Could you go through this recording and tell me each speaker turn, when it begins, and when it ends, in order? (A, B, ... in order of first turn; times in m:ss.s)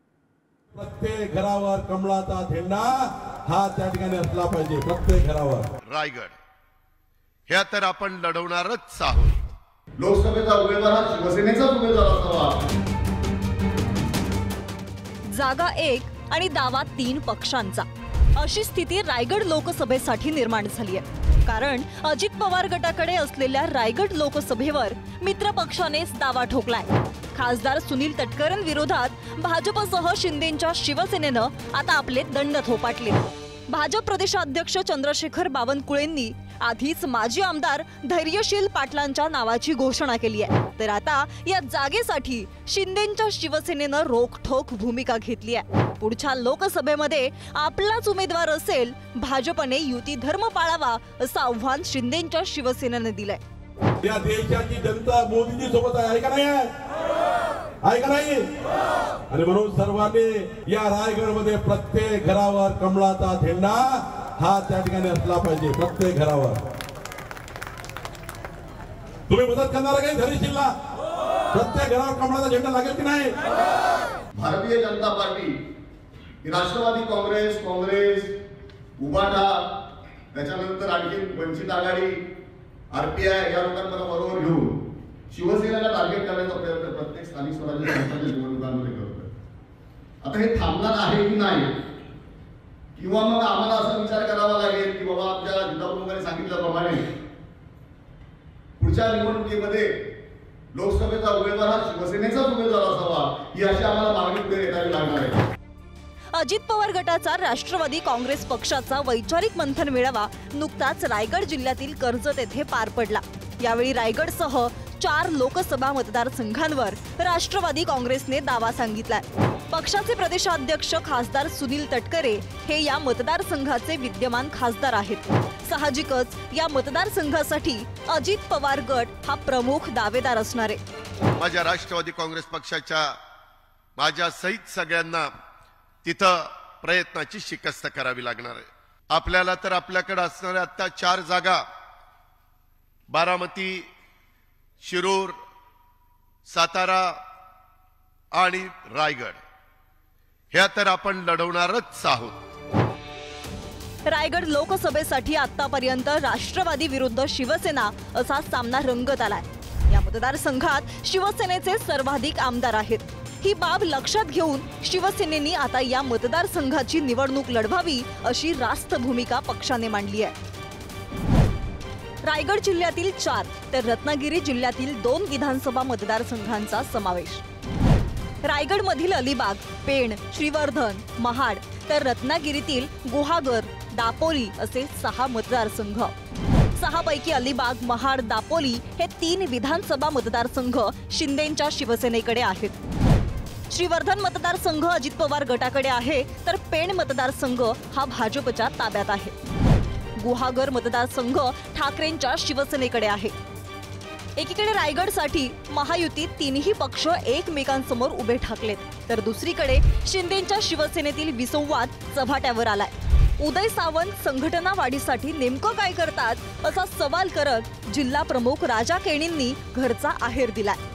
0:00.8-0:05.7 A
0:05.9-0:06.4 B
0:07.5-0:09.3 B
0:10.0-0:12.6 C
0:15.3-0:53.4 D
0:54.0-0:56.7 A
0:57.8-0:58.4 A
0:59.3-1:06.6 A
1:09.3-1:10.7 A
1:11.5-1:13.4 A
1:14.4-1:15.6 C
1:16.4-1:18.3 C
1:19.0-1:19.7 C
1:20.3-1:22.2 C
1:22.9-1:24.8 C
1:25.3-1:29.3 C
1:30.2-1:31.7 C
1:33.0-1:37.0 C
1:38.8-1:39.9 C
1:40.7-1:45.4 C
1:46.4-2:10.8 D
2:11.4-2:13.1 B
2:14.0-2:15.3 B
2:16.0-2:21.6 B
2:23.1-2:23.9 B
2:24.8-2:25.4 B
2:26.5-2:27.2 B
2:28.3-2:29.4 B
2:30.5-2:32.4 B
2:34.1-2:50.4 D
2:52.2-2:57.4 D
2:58.4-3:06.1 D
3:06.8-3:12.8 D
3:13.7-3:19.3 D
3:20.2-3:23.3 D
3:24.4-3:40.8 D